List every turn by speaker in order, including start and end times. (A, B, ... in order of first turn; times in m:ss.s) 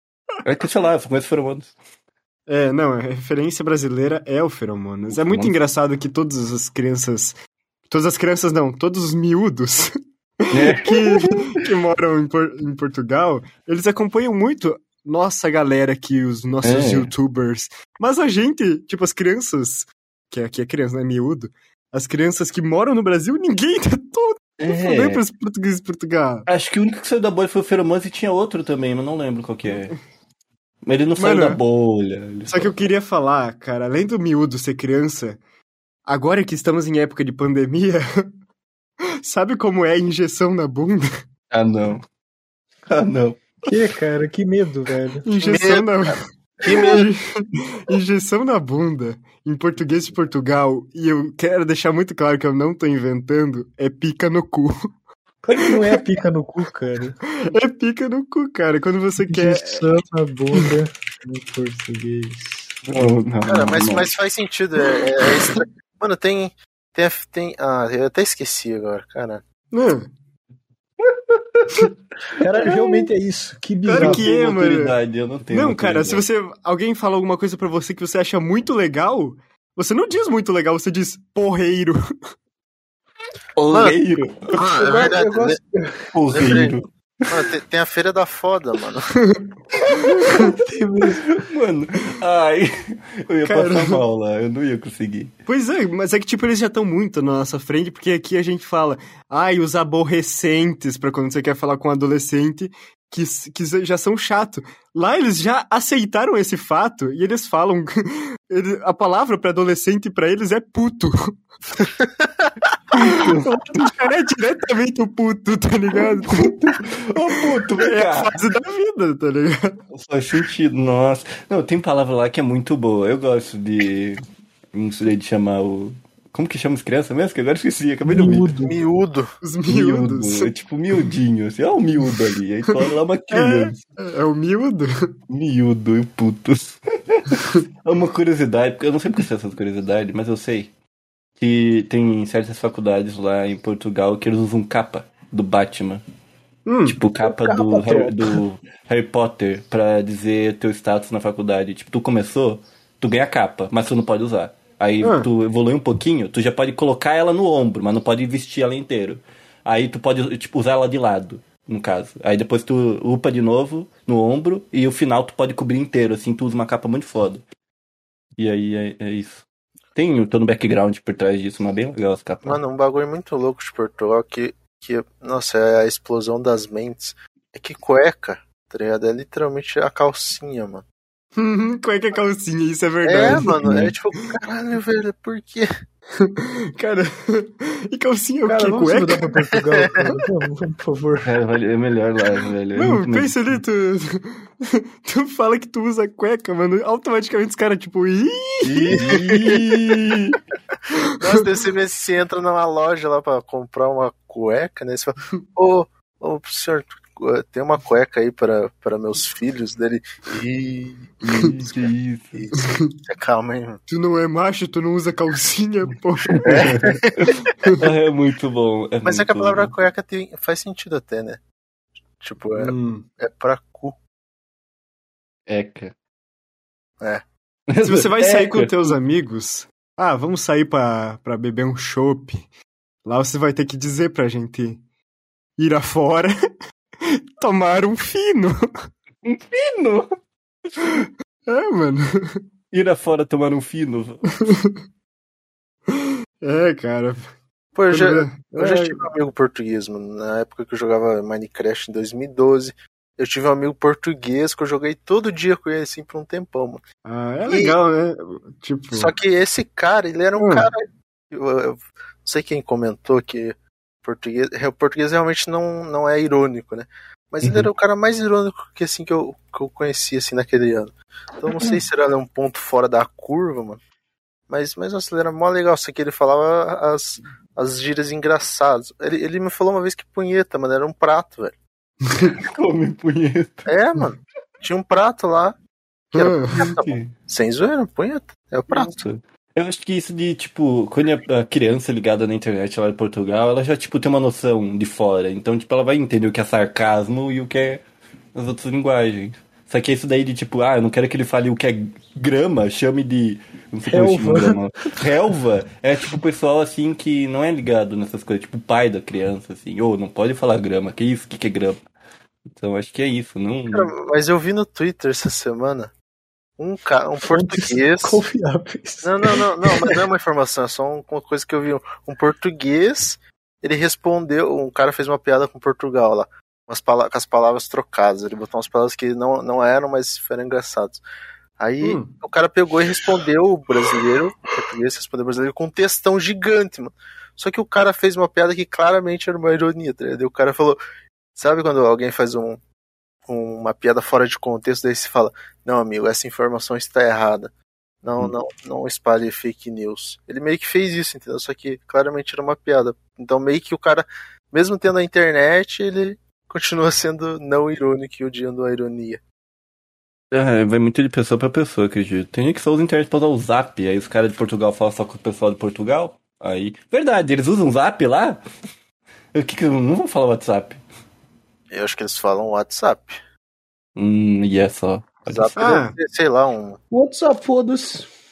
0:00.4-0:01.7 A
0:02.5-0:07.4 B
0:05.1-0:05.5 A
0:07.9-0:09.9 B
0:10.5-0:26.5 B
0:10.5-0:11.5 A
0:16.6-0:17.1 A
0:24.6-0:25.2 A
0:26.5-0:29.9 A
0:30.8-0:32.7 A
0:31.2-0:31.6 B
0:32.5-0:35.4 B
0:36.1-0:38.1 B
0:39.2-0:41.1 B
0:41.5-0:42.0 A
0:42.9-0:43.6 A
0:43.7-0:45.3 C
0:45.2-0:54.7 B
0:45.4-0:47.0 D
0:55.4-0:57.2 C
0:57.5-0:59.9 B
0:59.3-1:00.9 C
1:01.2-1:02.7 B
1:02.8-1:04.1 A
1:03.5-1:09.4 D
1:09.7-1:10.1 B
1:12.4-1:14.2 C
1:13.8-1:15.0 B
1:13.9-1:16.2 A
1:15.5-1:22.0 B
1:23.6-1:24.7 A
1:23.7-1:24.0 D
1:24.5-1:25.6 D
1:24.8-1:26.1 C
1:26.1-1:27.5 A
1:26.3-1:26.8 D
1:27.3-1:29.2 D
1:30.0-1:30.5 A
1:30.2-1:31.3 C
1:31.3-1:32.7 A
1:33.3-1:35.3 A
1:33.4-1:34.0 B
1:35.5-1:51.4 B
1:52.9-1:56.6 B
1:52.9-1:54.0 A
1:56.2-1:58.4 A
1:57.4-1:59.8 B
1:59.9-2:04.2 A
2:04.7-2:08.5 A
2:08.1-2:08.8 C
2:08.6-2:09.3 D
2:09.4-2:10.5 B
2:09.7-2:13.8 A
2:13.3-2:14.9 B
2:15.3-2:20.7 A
2:21.4-2:26.0 A
2:26.7-2:27.0 B
2:26.9-2:47.4 A
2:27.2-2:28.2 C
2:35.0-2:35.3 B
2:48.4-2:49.4 A
2:50.0-2:52.6 A
2:52.4-3:00.8 D
3:01.4-3:03.9 B
3:03.0-3:05.7 D
3:06.2-3:09.5 B
3:08.5-3:11.3 C
3:09.8-3:10.1 D
3:11.3-3:13.6 A
3:12.8-3:19.0 B
3:18.6-3:20.4 A
3:18.9-3:19.6 D
3:21.2-3:33.8 D
3:31.2-3:32.4 A
3:32.6-3:32.9 B
3:33.9-3:37.0 B
3:36.3-3:36.7 A
3:36.4-3:37.5 D
3:37.2-3:39.7 A
3:39.0-3:41.4 D
3:42.2-3:44.0 D
3:42.6-3:43.1 B
3:45.5-3:45.9 A
3:47.7-3:49.0 A
3:47.8-3:52.5 B
3:53.0-3:54.8 B
3:55.6-3:56.3 B
3:57.0-3:58.6 B
3:59.2-4:00.1 A
4:00.8-4:01.1 A
4:01.5-4:02.4 B
4:02.7-4:04.4 A
4:04.4-4:04.7 B
4:05.9-4:07.3 B
4:07.7-4:16.8 D
4:07.9-4:09.0 B
4:17.0-4:19.1 B
4:17.5-4:17.8 D
4:18.9-4:33.8 D
4:20.4-4:20.7 B
4:27.4-4:27.7 A
4:34.5-4:41.6 D
4:42.1-4:42.4 B
4:42.4-4:43.7 A
4:43.7-4:45.6 D
4:46.1-4:49.0 D
4:46.1-4:46.6 B
4:46.5-4:47.1 A
4:48.7-4:57.8 A
4:58.4-5:11.8 A
5:03.9-5:04.6 C
5:12.5-5:13.9 A
5:13.7-5:15.9 D
5:16.6-5:18.2 D
5:17.2-5:20.0 C
5:19.0-5:31.0 D
5:31.6-5:40.8 D
5:31.8-5:32.1 B
5:41.4-5:42.6 D
5:43.3-5:47.5 D
5:48.0-5:59.2 D
6:00.3-6:08.4 A
6:09.3-6:10.8 A
6:11.7-6:13.2 D
6:14.0-6:15.5 A
6:15.3-6:16.8 D
6:15.6-6:16.0 B
6:16.9-6:18.1 C